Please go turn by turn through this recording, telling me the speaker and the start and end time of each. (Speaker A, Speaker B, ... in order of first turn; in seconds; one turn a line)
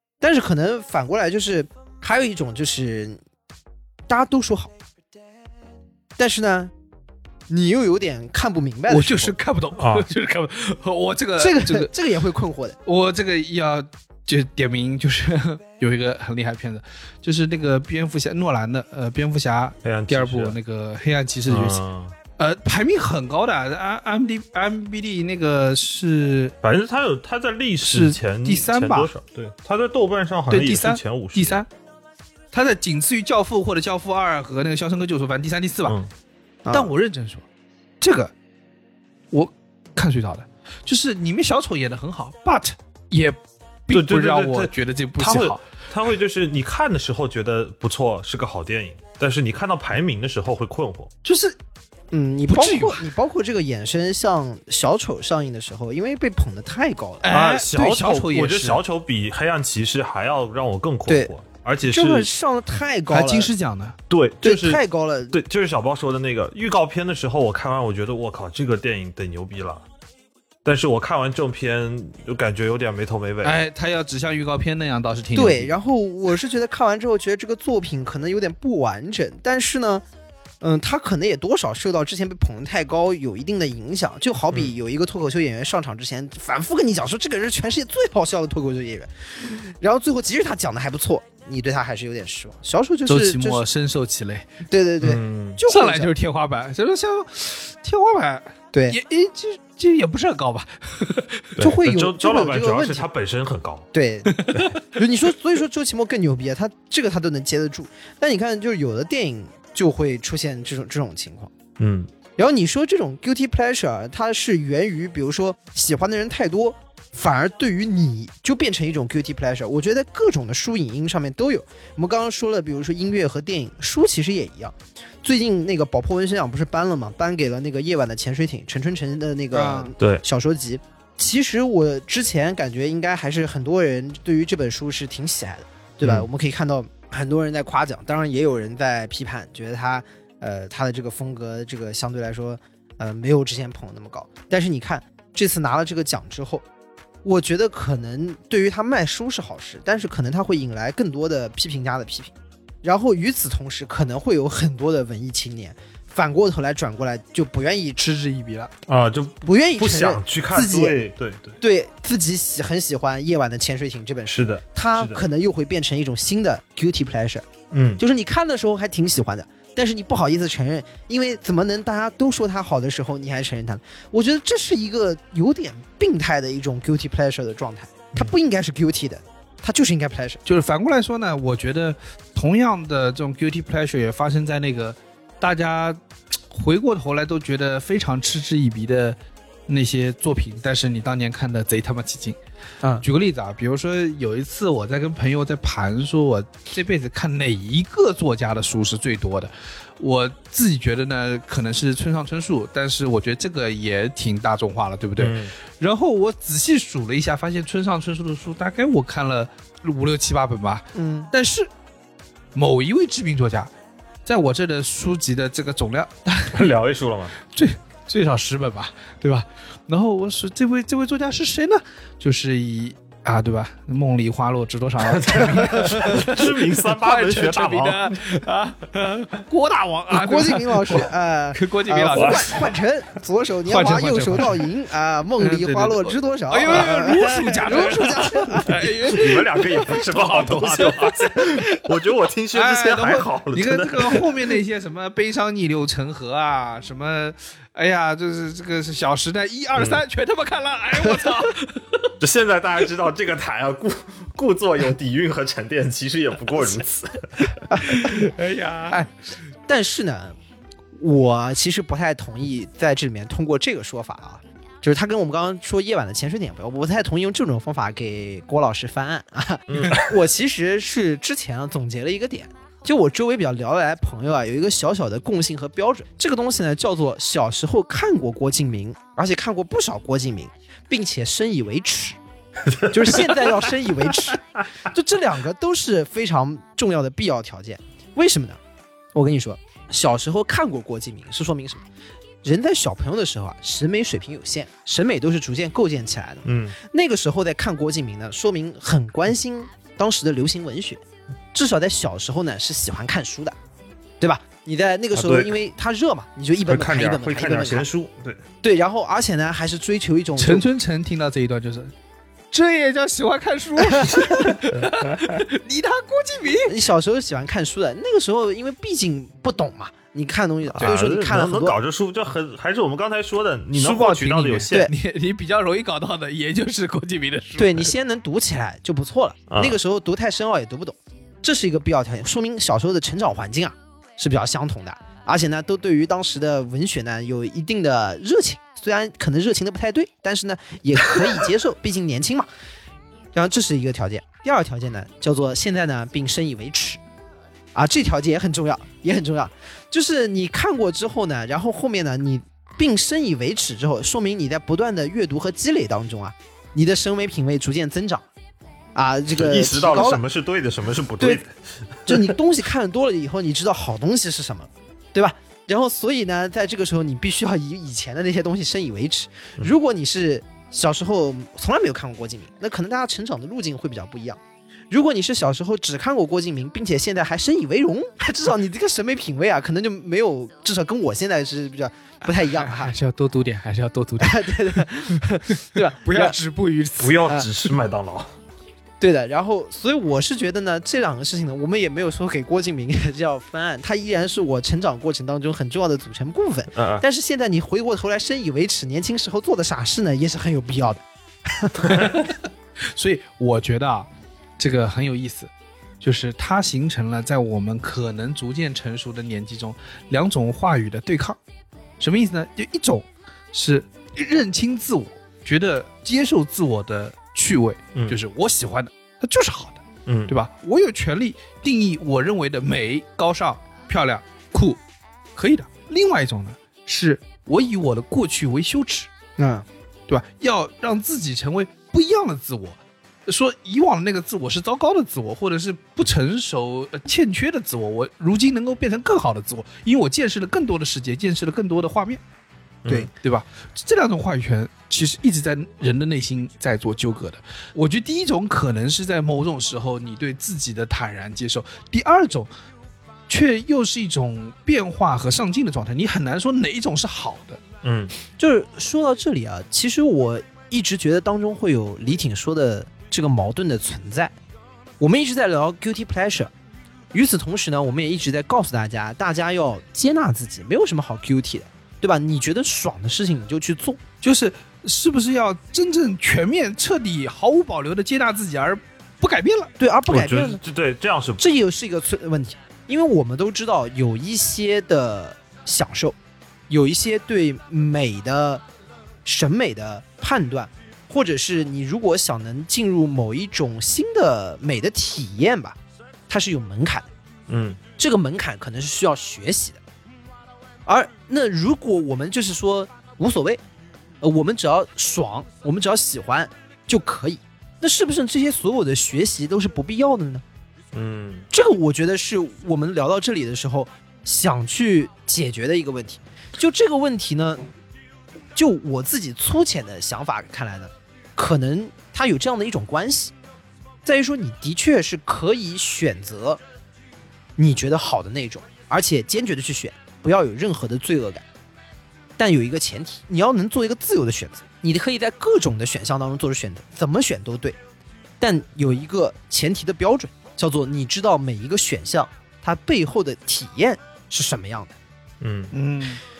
Speaker A: 0.2-3.2
Speaker A: 4.1-4.7
Speaker A: 6.2-6.7
Speaker A: 7.5-9.3
Speaker B: 8.9-11.9
Speaker C: 9.8-10.1
Speaker A: 11.4-12.8
Speaker B: 12.8-21.8
Speaker C: 19.8-20.6
Speaker C: 21.5-22.1
Speaker B: 22.4-26.5
Speaker C: 26.6-31.6
Speaker B: 27.8-29.1
Speaker B: 30.5-31.7
Speaker B: 32.5-36.0
Speaker C: 35.9-36.1
Speaker A: 36.6-36.9
Speaker B: 36.7-37.4
Speaker B: 38.0-38.3
Speaker B: 39.3-45.7
Speaker C: 43.9-51.1
Speaker B: 51.2-51.5
Speaker A: 52.1-57.3
Speaker B: 52.5-53.1
Speaker B: 57.2-58.8
Speaker C: 57.3-62.3
Speaker A: 61.9-63.5
Speaker B: 63.1-64.0
Speaker C: 64.1-69.8
Speaker A: 64.4-65.4
Speaker C: 70.6-73.6
Speaker B: 73.4-75.7
Speaker A: 75.3-80.0
Speaker A: 80.6-93.6
Speaker B: 93.1-94.5
Speaker A: 94.7-96.1
Speaker C: 95.0-95.6
Speaker B: 95.7-101.6
Speaker C: 101.6-103.9
Speaker A: 101.6-103.0
Speaker A: 103.9-111.5
Speaker B: 104.3-104.8
Speaker C: 111.8-112.1
Speaker A: 112.4-146.6
Speaker B: 129.5-129.9
Speaker C: 136.0-136.3
Speaker A: 147.2-152.3
Speaker A: 152.8-158.0
Speaker B: 158.0-158.7
Speaker C: 158.9-161.6
Speaker A: 159.4-161.0
Speaker A: 161.6-167.4
Speaker C: 164.3-165.2
Speaker C: 167.7-168.0
Speaker A: 168.0-180.4
Speaker B: 180.4-186.0
Speaker B: 186.5-192.4
Speaker B: 193.0-211.7
Speaker C: 205.2-205.5
Speaker A: 210.9-211.3
Speaker B: 212.5-213.7
Speaker B: 214.2-216.7
Speaker C: 216.5-217.3
Speaker B: 217.4-232.5
Speaker C: 225.0-228.4
Speaker A: 230.1-238.8
Speaker C: 232.1-232.5
Speaker B: 233.7-234.6
Speaker B: 235.4-241.9
Speaker C: 239.0-244.6
Speaker B: 242.5-251.9
Speaker C: 249.8-250.0
Speaker C: 252.2-257.6
Speaker A: 257.7-258.1
Speaker B: 257.8-259.1
Speaker A: 259.7-260.4
Speaker A: 261.0-282.2
Speaker C: 269.7-270.1
Speaker C: 282.6-283.6
Speaker A: 282.9-288.6
Speaker A: 289.1-291.8
Speaker A: 292.4-301.0
Speaker C: 296.4-296.8
Speaker A: 301.5-303.6
Speaker A: 304.2-307.9
Speaker C: 305.1-305.6
Speaker C: 306.6-308.4
Speaker A: 308.6-310.6
Speaker B: 310.4-311.9
Speaker B: 312.5-316.7
Speaker A: 313.8-314.1
Speaker C: 314.7-315.4
Speaker A: 316.6-321.8
Speaker C: 320.8-324.9
Speaker B: 323.7-327.9
Speaker A: 327.6-342.5
Speaker C: 329.5-329.8
Speaker A: 343.3-347.0
Speaker A: 347.7-358.2
Speaker A: 358.9-360.2
Speaker C: 359.3-362.3
Speaker A: 362.1-374.4
Speaker A: 374.9-382.9
Speaker B: 382.4-387.2
Speaker A: 384.2-386.4
Speaker C: 387.0-388.3
Speaker A: 389.0-402.2
Speaker C: 396.7-397.0
Speaker B: 402.8-404.1
Speaker B: 404.6-405.5
Speaker B: 406.0-411.4
Speaker B: 412.0-424.8
Speaker C: 420.1-420.3
Speaker B: 425.4-429.1
Speaker A: 429.4-429.6
Speaker B: 430.1-442.2
Speaker C: 442.8-443.1
Speaker B: 443.1-452.5
Speaker B: 453.3-457.6
Speaker C: 457.8-458.1
Speaker A: 458.4-464.3
Speaker A: 465.0-466.5
Speaker A: 467.1-474.0
Speaker B: 474.2-479.7
Speaker A: 479.8-480.6
Speaker C: 480.1-481.5
Speaker A: 481.4-486.1
Speaker A: 486.7-488.6
Speaker A: 489.2-495.8
Speaker A: 496.3-497.1
Speaker C: 497.5-497.8
Speaker A: 498.0-499.8
Speaker A: 500.9-503.6
Speaker A: 504.2-510.4
Speaker C: 510.9-511.5
Speaker A: 511.5-517.7
Speaker A: 518.5-523.3
Speaker A: 524.0-526.6
Speaker A: 527.6-531.4
Speaker A: 532.4-537.8
Speaker A: 538.4-544.9
Speaker C: 545.4-545.7
Speaker B: 545.7-546.2